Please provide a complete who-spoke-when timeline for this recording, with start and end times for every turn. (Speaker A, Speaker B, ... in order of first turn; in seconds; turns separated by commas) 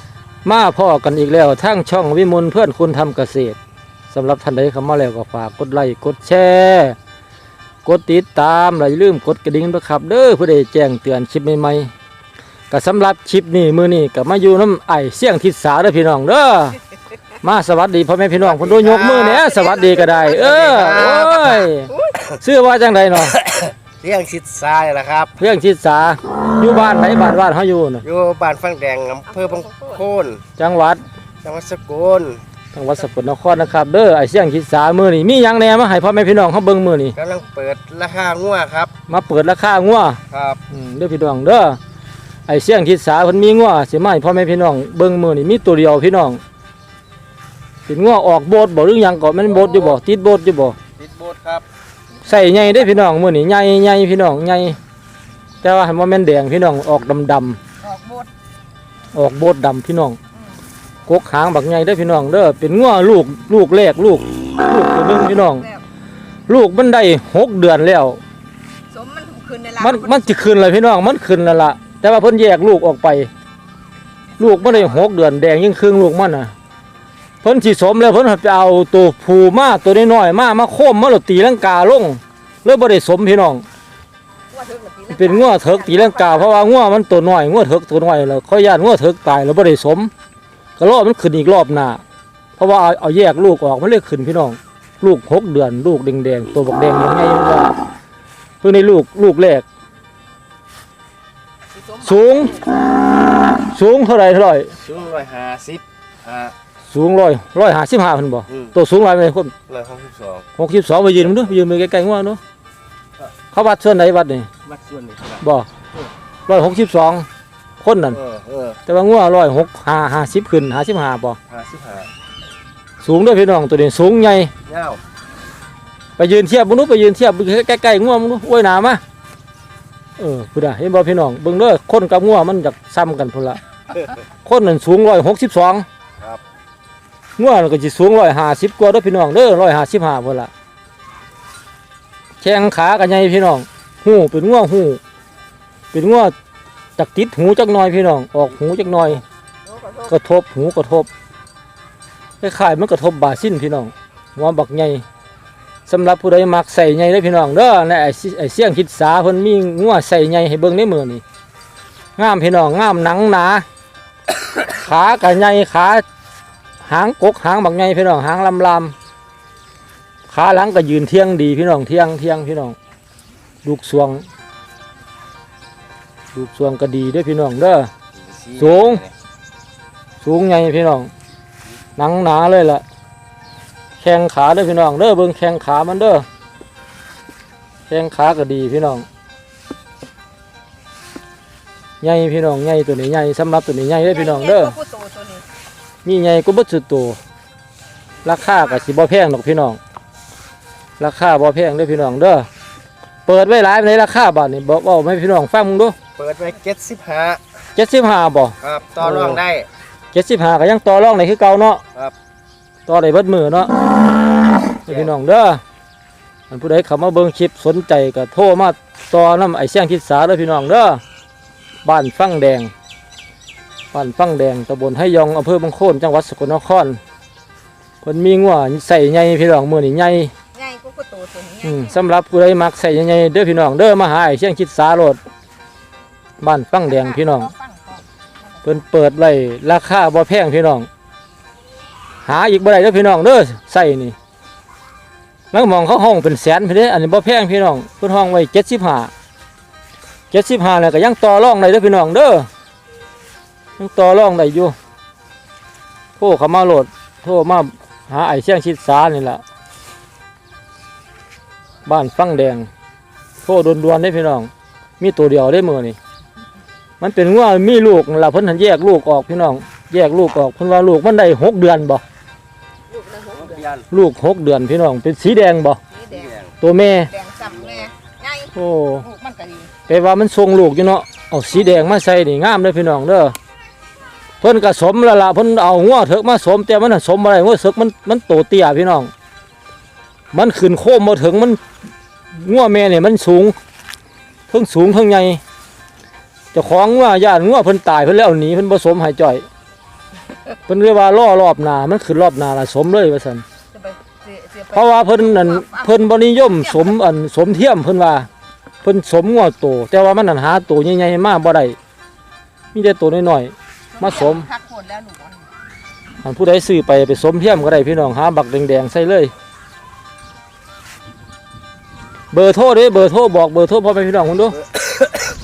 Speaker A: 0.5-3.6, Speaker A: 4.1-7.0, Speaker A: 7.8-11.9, Speaker A: 12.7-16.8, Speaker A: 17.4-23.4, Speaker B: 18.4-21.6, Speaker C: 19.2-22.2, Speaker B: 23.3-25.4, Speaker A: 25.4-28.0, Speaker B: 28.0-30.4, Speaker C: 29.3-30.1, Speaker A: 30.6-31.0, Speaker B: 31.4-32.4, Speaker A: 32.7-37.2, Speaker B: 37.2-38.9, Speaker A: 39.1-41.8, Speaker B: 40.3-40.6, Speaker A: 42.5-46.4, Speaker A: 47.9-50.8, Speaker B: 49.5-50.0, Speaker B: 51.0-51.6, Speaker C: 52.1-53.0, Speaker A: 52.3-54.8, Speaker A: 55.6-57.6, Speaker C: 57.8-58.3, Speaker A: 59.1-60.2, Speaker C: 60.4-60.6, Speaker A: 61.1-65.6, Speaker C: 65.5-65.8, Speaker A: 66.5-68.2, Speaker C: 68.9-70.4, Speaker A: 69.8-73.3, Speaker C: 74.4-75.1, Speaker A: 74.4-76.5, Speaker A: 77.4-83.6, Speaker C: 84.5-86.7, Speaker A: 85.1-90.1, Speaker A: 90.8-92.0, Speaker A: 92.6-97.8, Speaker A: 98.6-99.6, Speaker C: 101.7-102.7, Speaker A: 102.0-102.6, Speaker A: 103.5-104.8, Speaker B: 104.8-106.5, Speaker A: 106.9-109.5, Speaker B: 109.7-110.5, Speaker A: 110.6-112.4, Speaker A: 113.5-114.5, Speaker B: 114.6-115.4, Speaker A: 115.4-115.7, Speaker A: 116.5-117.3, Speaker A: 117.8-118.2, Speaker B: 118.1-118.8, Speaker A: 118.9-121.4, Speaker B: 121.5-122.1, Speaker A: 123.0-124.5, Speaker B: 124.7-125.0, Speaker A: 126.2-129.0, Speaker A: 130.2-133.6, Speaker A: 134.4-135.8, Speaker A: 137.4-140.5, Speaker A: 142.4-145.0, Speaker A: 145.9-146.3, Speaker A: 147.0-149.2, Speaker C: 149.6-150.2, Speaker A: 150.1-151.1, Speaker A: 152.4-155.0, Speaker A: 155.9-161.2, Speaker A: 162.2-163.7, Speaker A: 164.6-166.0, Speaker A: 166.8-168.9, Speaker A: 170.3-172.8, Speaker A: 173.6-174.2, Speaker A: 176.3-177.9, Speaker B: 178.2-179.1, Speaker A: 178.6-179.0, Speaker A: 180.2-181.1, Speaker A: 182.0-182.8, Speaker A: 184.0-186.2, Speaker A: 187.9-189.1, Speaker A: 192.0-194.8, Speaker C: 194.0-195.4, Speaker A: 196.0-197.2, Speaker A: 198.2-199.8, Speaker A: 201.0-202.5, Speaker A: 203.2-206.0, Speaker B: 206.2-207.4, Speaker A: 207.7-209.4, Speaker B: 208.6-209.7, Speaker A: 210.1-211.8, Speaker A: 212.9-213.7, Speaker A: 214.8-215.6, Speaker A: 216.5-221.0, Speaker A: 221.8-222.7, Speaker A: 223.9-227.0, Speaker A: 228.0-230.3, Speaker C: 230.5-232.0, Speaker A: 231.6-235.2, Speaker A: 236.4-237.5, Speaker C: 236.8-238.8, Speaker A: 238.6-240.9, Speaker A: 242.2-244.2, Speaker A: 245.5-249.1, Speaker A: 250.3-252.5, Speaker A: 253.8-254.8, Speaker A: 256.2-259.4, Speaker A: 261.9-262.7, Speaker A: 263.4-266.0, Speaker A: 267.0-272.0, Speaker C: 272.9-273.7, Speaker B: 273.5-273.8, Speaker A: 273.9-275.8, Speaker C: 275.9-276.4, Speaker B: 276.1-276.5, Speaker A: 276.6-277.1, Speaker C: 276.9-279.7, Speaker A: 278.6-279.1, Speaker A: 279.9-283.3, Speaker A: 284.4-289.1, Speaker A: 290.3-291.6, Speaker A: 292.3-293.6, Speaker A: 294.5-295.4, Speaker A: 296.5-299.4, Speaker A: 300.7-303.4, Speaker C: 303.7-305.9, Speaker A: 304.7-308.3, Speaker C: 306.5-306.9, Speaker A: 308.8-311.8, Speaker A: 312.7-314.5, Speaker C: 313.9-315.5, Speaker A: 316.2-319.3, Speaker A: 322.3-324.6, Speaker B: 324.7-325.1